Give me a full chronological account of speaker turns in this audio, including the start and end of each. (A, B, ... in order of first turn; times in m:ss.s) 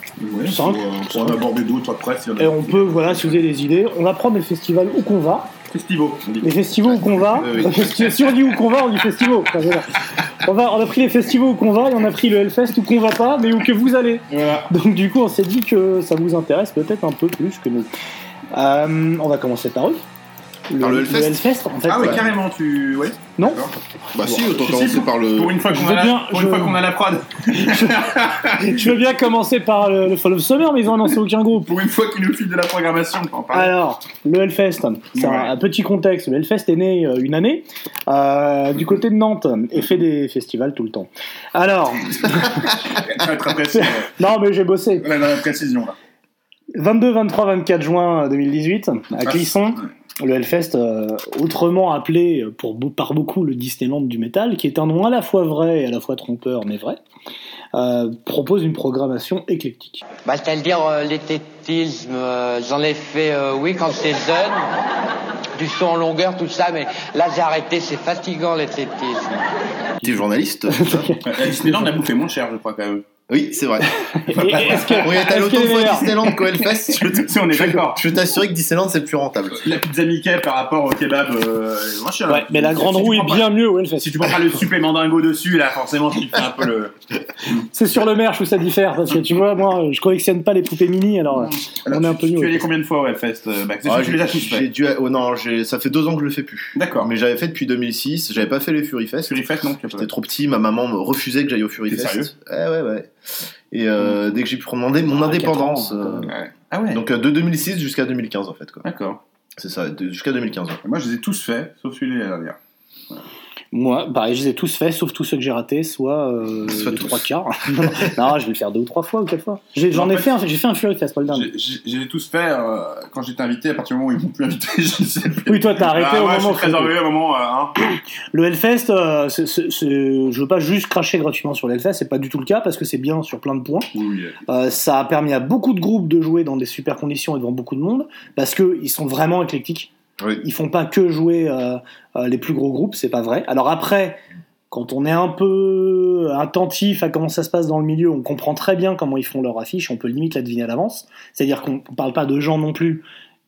0:00.2-0:03.4 A
0:00.5-0:01.4 B
0:02.4-0:05.5 B
0:05.7-0:06.5 A
0:06.4-0:17.9 B
0:07.3-0:08.0 C
0:07.4-0:08.4 A
0:14.3-0:14.7 A
0:18.5-0:20.0 B
0:20.7-0:22.2 B
0:20.8-0:21.4 C
0:21.9-0:23.7 A
0:24.1-0:25.6 C
0:24.4-0:28.9 A
0:25.7-0:26.8 B
0:27.5-0:31.7 B
0:31.6-0:33.7 A
0:33.5-0:42.7 B
0:35.1-0:35.5 A
0:42.2-0:44.1 A
0:43.7-0:45.1 B
0:45.0-0:46.0 A
0:46.7-0:57.0 B
0:49.2-0:49.9 A
0:57.7-1:00.0 B
1:00.2-1:04.7 D
1:05.6-1:09.6 D
1:10.0-1:11.2 C
1:10.7-1:11.8 B
1:11.2-1:13.0 A
1:13.3-1:13.9 C
1:14.1-1:16.1 B
1:14.3-1:15.2 A
1:14.7-1:19.7 C
1:16.2-1:18.0 A
1:19.6-1:26.9 A
1:22.3-1:24.3 B
1:27.7-1:32.6 B
1:31.4-1:34.7 A
1:33.8-1:43.1 C
1:36.8-1:37.1 A
1:39.2-1:40.1 A
1:41.9-1:42.3 A
1:43.7-1:46.3 C
1:45.1-1:46.3 B
1:46.3-1:47.0 A
1:46.9-1:48.8 C
1:48.8-1:49.2 A
1:49.6-1:50.8 C
1:50.8-1:52.6 A
1:53.7-2:01.5 B
1:56.7-1:57.1 C
1:59.9-2:00.3 A
2:01.3-2:07.7 A
2:05.5-2:06.9 B
2:08.3-2:13.9 B
2:13.9-2:14.4 A
2:14.5-2:24.2 B
2:24.7-2:33.0 B